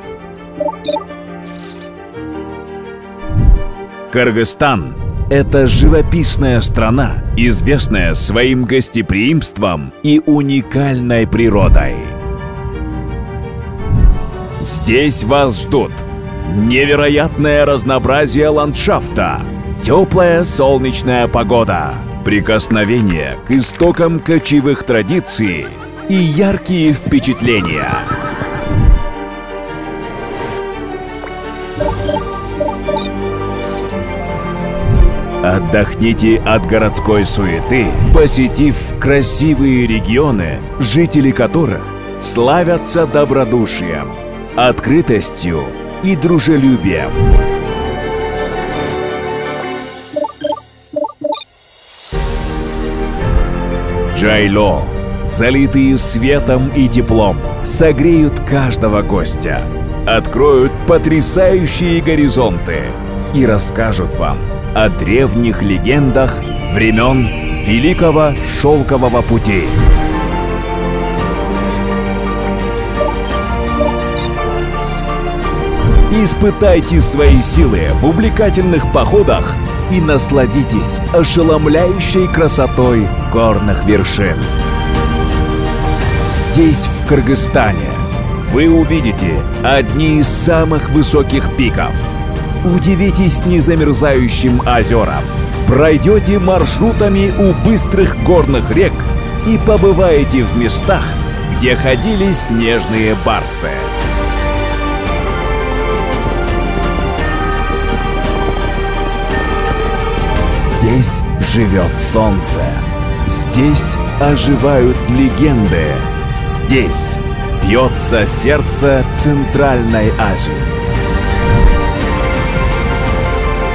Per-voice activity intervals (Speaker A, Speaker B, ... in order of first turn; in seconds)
Speaker A: 4.1-12.2, 14.6-28.1, 35.4-47.2, 54.1-69.9, 76.1-84.5, 86.3-103.9, 110.5-120.8